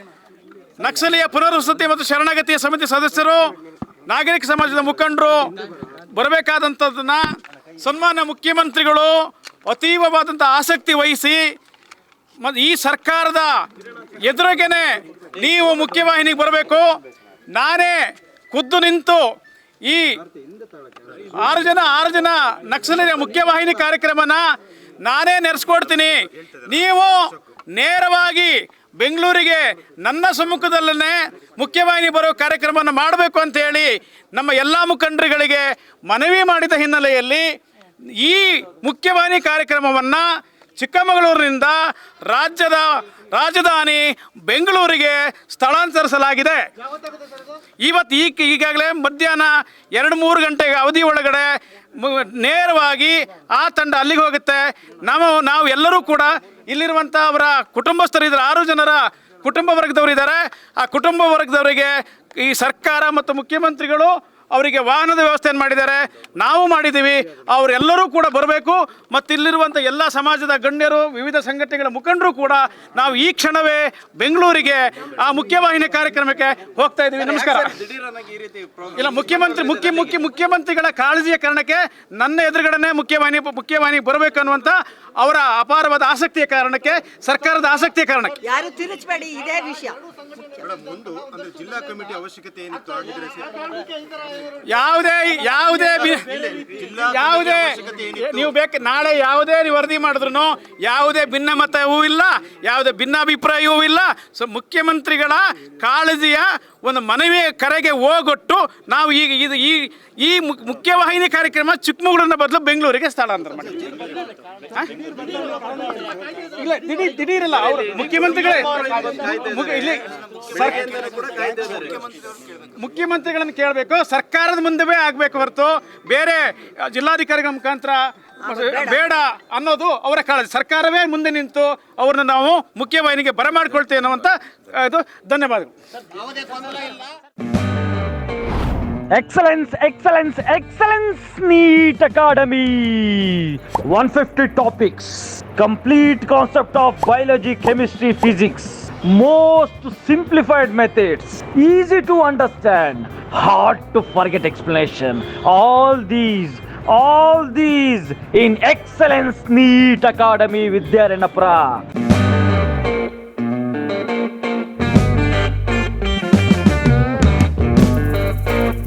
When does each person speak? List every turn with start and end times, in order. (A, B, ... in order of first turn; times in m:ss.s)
0:00.8-0:03.5 A
0:04.1-0:07.2 A
0:07.8-0:11.4 A
0:12.4-0:13.6 A
0:14.2-0:17.0 A
0:17.5-0:19.2 A
0:19.9-0:20.2 A
0:21.1-0:24.4 A
0:25.0-0:37.5 A
0:38.2-0:40.3 A
0:40.8-0:46.7 A
0:47.8-1:17.9 A
1:18.0-1:18.9 B
1:18.9-1:28.4 A
1:28.4-1:30.0 C
1:30.6-1:33.6 B
1:34.5-1:54.1 A
1:36.6-1:38.1 B
1:54.7-1:55.2 A
1:56.3-2:01.1 A
2:00.5-2:02.0 B
2:02.7-2:15.7 A
2:08.5-2:08.9 C
2:19.1-2:41.8 D